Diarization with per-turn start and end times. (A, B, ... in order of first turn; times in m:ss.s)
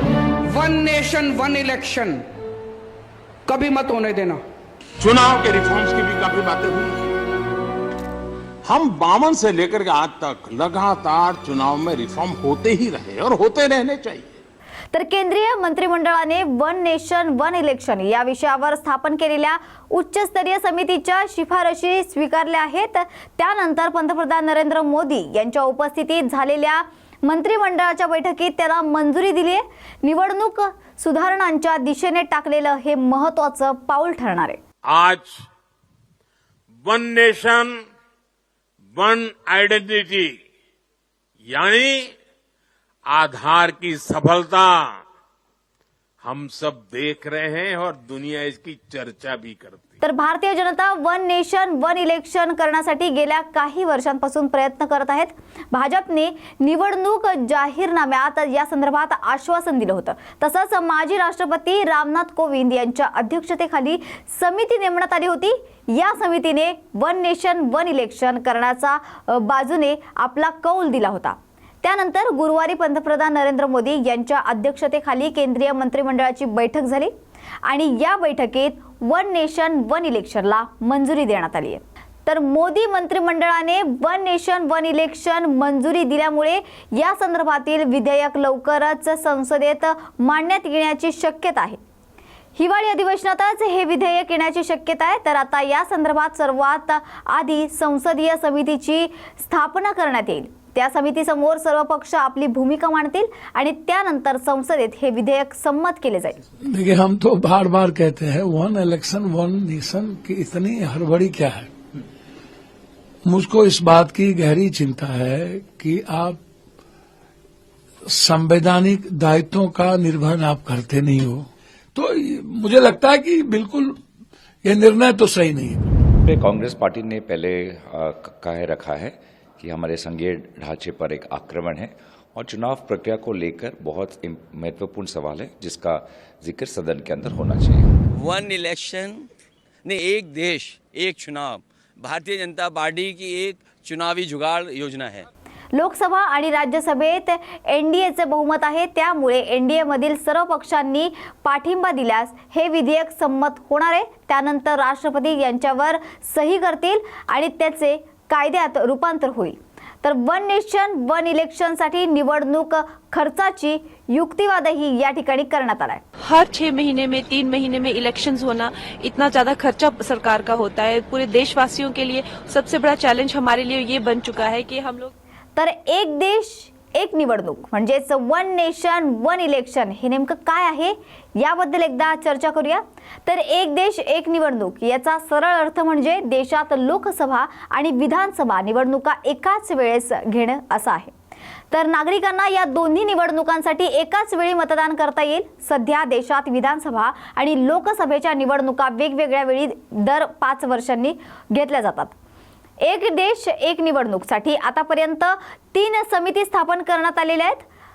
0:00.5-0:02.2 A
0:03.5-0:04.4 A
0:05.0-0:07.1 B
0:08.6-0:14.4 B
0:14.9-0:34.6 C
0:34.9-0:35.4 B
0:36.8-0:37.8 B
0:39.0-0:40.4 B
0:41.4-0:42.1 B
0:43.1-0:44.9 B
0:46.2-0:49.9 B
0:50.0-1:17.1 C
1:17.6-1:31.8 C
1:32.6-1:46.4 C
1:46.6-1:51.7 D
1:53.3-1:56.4 D
1:58.1-2:04.0 D
2:04.6-2:05.9 D
2:06.2-2:17.9 E
2:18.1-2:19.3 F
2:19.8-2:25.3 F
2:25.7-2:46.0 C
2:46.2-2:55.1 G
2:55.6-3:11.1 C
3:11.7-3:22.1 C
3:22.8-3:27.6 C